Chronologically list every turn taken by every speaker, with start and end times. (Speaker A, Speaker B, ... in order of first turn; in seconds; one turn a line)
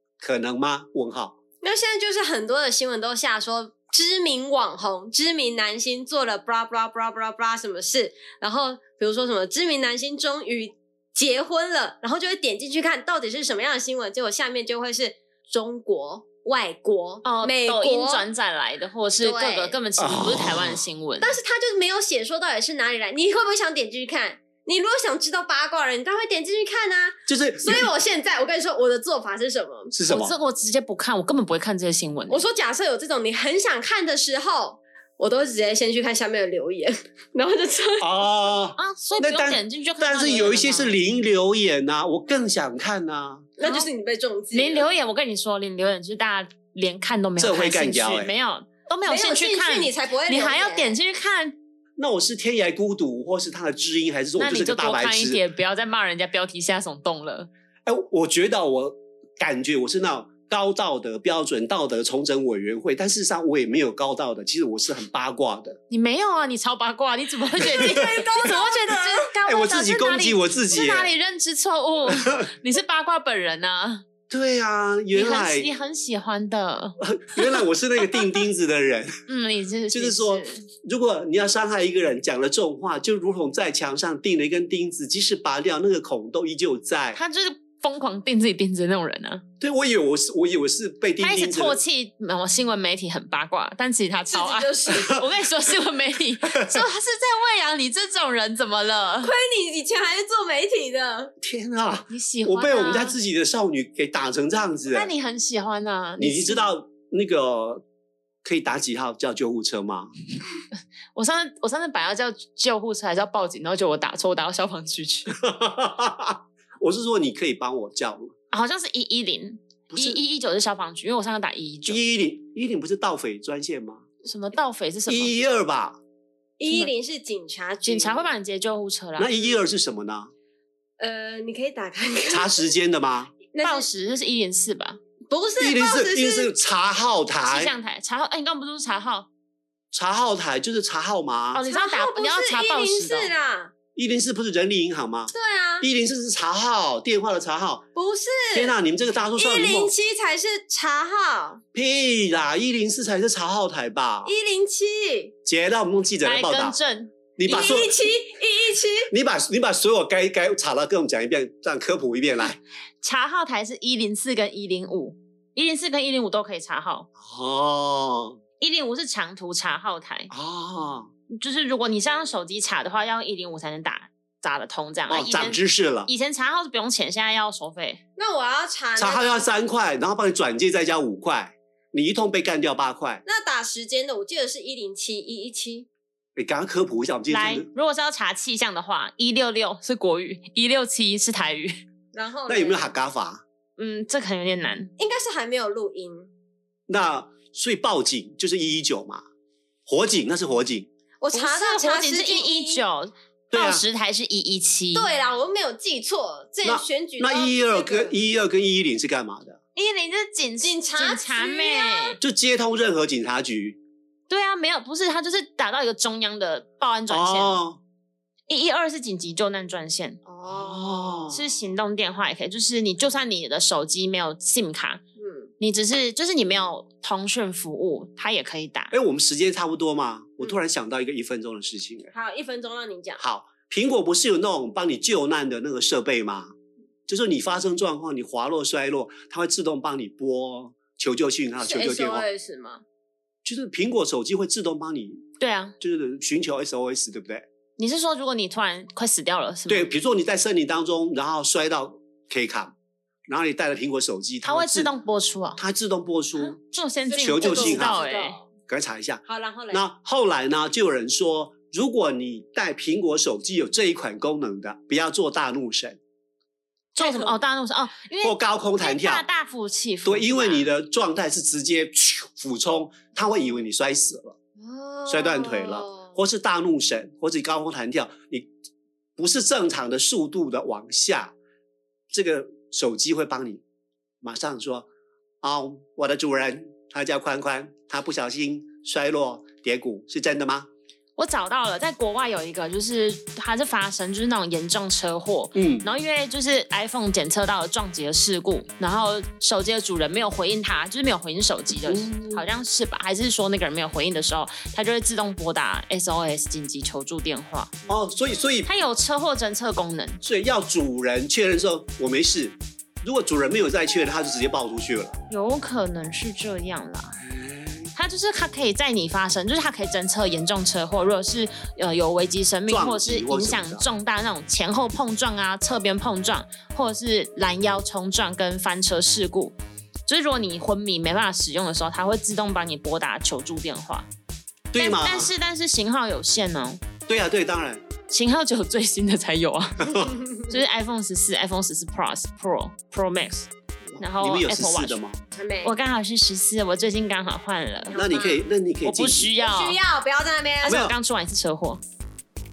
Speaker A: 0.2-1.4
Speaker B: 1.6-18.3
Speaker C: 17.2-21.3
Speaker B: 19.2-19.8
Speaker A: 20.0-20.8
Speaker B: 21.2-29.9
Speaker A: 27.2-27.9
Speaker A: 29.9-30.3
Speaker C: 30.1-32.4
Speaker B: 32.3-38.1
Speaker A: 38.0-43.5
Speaker C: 38.8-41.0
Speaker B: 43.6-44.9
Speaker C: 43.6-43.9
Speaker C: 44.5-51.5
Speaker A: 47.4-48.3
Speaker B: 49.0-51.0
Speaker A: 52.0-55.4
Speaker C: 54.4-57.5
Speaker A: 57.9-65.8
Speaker C: 65.9-74.0
Speaker B: 67.6-69.3
Speaker A: 69.4-71.1
Speaker A: 74.3-75.7
Speaker C: 75.1-77.5
Speaker A: 77.0-79.1
Speaker C: 79.3-80.6
Speaker A: 79.9-87.2
Speaker C: 87.1-89.4
Speaker A: 89.6-91.8
Speaker C: 91.2-99.3
Speaker B: 94.3-95.2
Speaker A: 96.5-96.8
Speaker B: 99.2-101.3
Speaker A: 101.4-105.1
Speaker C: 102.1-103.2
Speaker C: 104.9-106.6
Speaker A: 106.2-107.8
Speaker A: 108.4-110.1
Speaker C: 111.1-115.3
Speaker A: 115.3-118.3
Speaker C: 118.5-122.0
Speaker A: 119.9-120.2
Speaker A: 121.9-124.0
Speaker C: 124.2-125.3
Speaker A: 125.1-126.0
Speaker B: 126.6-128.3
Speaker C: 126.7-126.9
Speaker C: 127.8-129.3
Speaker A: 129.2-130.3
Speaker B: 129.3-129.7
Speaker B: 131.0-132.6
Speaker A: 132.3-133.3
Speaker B: 133.5-133.9
Speaker C: 133.6-135.0
Speaker B: 135.3-136.5
Speaker A: 135.6-137.7
Speaker C: 137.4-139.3
Speaker A: 139.9-141.6
Speaker C: 141.5-143.3
Speaker B: 141.7-143.7
Speaker A: 143.9-147.8
Speaker B: 145.3-145.9
Speaker B: 147.9-148.7
Speaker A: 148.5-149.9
Speaker B: 149.3-151.6
Speaker A: 151.7-154.3
Speaker B: 154.2-155.3
Speaker A: 155.4-156.8
Speaker C: 156.2-157.2
Speaker A: 157.4-157.9
Speaker B: 157.5-159.1
Speaker A: 159.1-162.6
Speaker C: 163.0-167.1
Speaker A: 167.2-168.4
Speaker C: 168.6-170.3
Speaker A: 170.3-171.1
Speaker C: 171.3-178.0
Speaker A: 175.1-176.1
Speaker B: 178.2-179.5
Speaker A: 179.0-183.2
Speaker B: 183.2-185.9
Speaker A: 186.3-187.7
Speaker C: 187.3-191.8
Speaker B: 192.1-192.9
Speaker A: 192.5-193.4
Speaker C: 193.8-194.9
Speaker B: 195.0-196.3
Speaker A: 196.9-199.2
Speaker A: 199.9-200.9
Speaker B: 201.2-202.8
Speaker C: 201.3-205.1
Speaker A: 203.5-203.8
Speaker B: 204.9-208.2
Speaker A: 206.6-209.6
Speaker C: 209.7-212.2
Speaker B: 210.6-212.2
Speaker A: 212.2-213.8
Speaker C: 214.3-217.6
Speaker A: 217.1-217.8
Speaker C: 218.5-220.2
Speaker B: 220.2-221.3
Speaker A: 220.4-221.4
Speaker C: 221.3-225.0
Speaker B: 225.2-225.5
Speaker C: 225.6-228.9
Speaker A: 228.9-232.1
Speaker B: 232.1-233.2
Speaker A: 233.2-236.5
Speaker A: 237.1-242.2
Speaker B: 241.6-242.8
Speaker A: 243.4-245.2
Speaker C: 245.4-245.7
Speaker A: 245.8-247.4
Speaker C: 247.8-249.9
Speaker A: 249.7-252.7
Speaker A: 253.3-254.9
Speaker C: 254.4-255.6
Speaker A: 255.6-256.6
Speaker C: 256.4-258.4
Speaker B: 257.1-258.4
Speaker A: 257.2-258.0
Speaker A: 258.7-266.0
Speaker B: 259.2-259.8
Speaker C: 266.9-270.7
Speaker B: 267.0-267.4
Speaker A: 268.2-269.2
Speaker A: 270.0-274.4
Speaker B: 274.6-276.1
Speaker A: 275.1-278.5
Speaker A: 279.2-281.3
Speaker A: 282.1-283.6
Speaker A: 284.2-284.9
Speaker A: 285.4-290.7
Speaker C: 291.2-307.7
Speaker A: 295.5-295.9
Speaker A: 301.9-302.4
Speaker A: 307.9-308.7
Speaker C: 308.6-310.2
Speaker A: 310.2-315.2
Speaker C: 315.3-317.2
Speaker A: 317.2-317.9
Speaker C: 317.9-329.6
Speaker A: 322.7-323.9
Speaker C: 330.1-334.1
Speaker A: 334.7-335.3
Speaker C: 334.8-336.8
Speaker A: 337.1-337.8
Speaker C: 338.1-345.0
Speaker A: 339.8-340.1
Speaker B: 340.2-340.5
Speaker A: 343.9-345.2
Speaker B: 345.3-345.7
Speaker C: 345.6-348.0
Speaker B: 347.9-348.5
Speaker A: 347.9-349.3
Speaker C: 348.8-349.8
Speaker B: 349.4-350.8
Speaker C: 350.6-351.8
Speaker A: 350.7-350.9